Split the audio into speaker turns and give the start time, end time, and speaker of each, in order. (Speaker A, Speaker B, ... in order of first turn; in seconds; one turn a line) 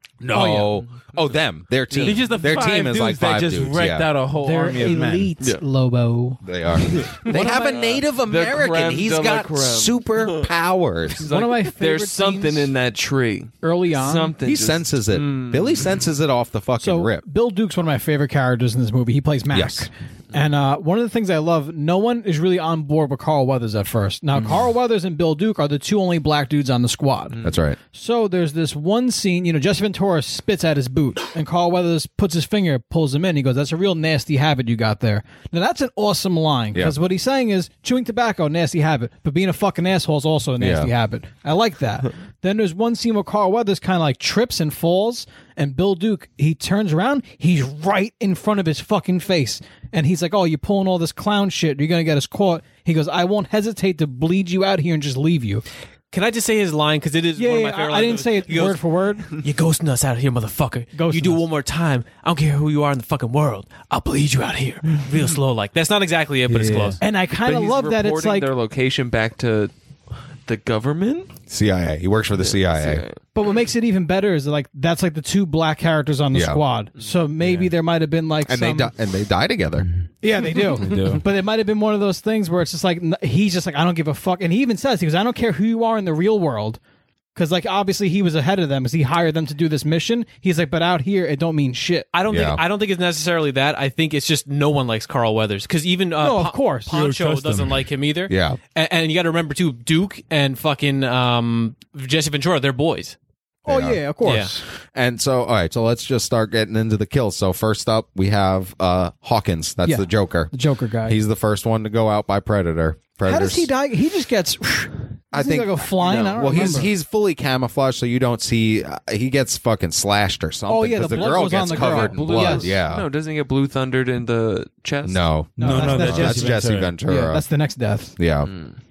Speaker A: 0.2-4.1
Speaker B: 0.3-0.7
Speaker C: 1.9-5.3
Speaker B: 4.4-6.4
Speaker A: 6.4-11.3
Speaker D: 6.9-10.5
Speaker D: 11.1-15.9
Speaker B: 11.2-12.7
Speaker B: 13.6-14.4
Speaker A: 14.4-17.2
Speaker B: 16.8-55.6
Speaker A: 19.5-19.9
Speaker A: 27.4-27.8
Speaker A: 40.6-40.9
Speaker E: 56.1-67.0
Speaker B: 57.4-59.3
Speaker B: 60.9-61.4
Speaker C: 66.5-67.0
Speaker B: 67.0-68.5
Speaker D: 67.3-69.7
Speaker D: 70.4-71.3
Speaker A: 71.5-73.0
Speaker D: 72.4-73.2
Speaker B: 73.3-78.9
Speaker A: 76.3-76.6
Speaker C: 77.4-77.7
Speaker A: 78.5-79.9
Speaker B: 80.2-86.8
Speaker C: 80.7-81.2
Speaker B: 87.3-92.1
Speaker E: 92.1-103.2
Speaker A: 92.3-92.6
Speaker B: 96.2-97.1
Speaker C: 96.9-97.8
Speaker A: 98.3-98.6
Speaker B: 103.7-104.6
Speaker A: 103.7-104.0
Speaker E: 104.2-104.5
Speaker A: 104.9-110.5
Speaker B: 109.8-111.2
Speaker A: 111.1-113.7
Speaker B: 113.2-116.9
Speaker A: 115.3-123.1
Speaker E: 116.0-116.6
Speaker B: 120.7-122.7
Speaker D: 121.6-125.3
Speaker A: 125.0-127.4
Speaker C: 125.6-127.0
Speaker B: 125.6-128.1
Speaker A: 128.2-128.5
Speaker D: 128.4-128.8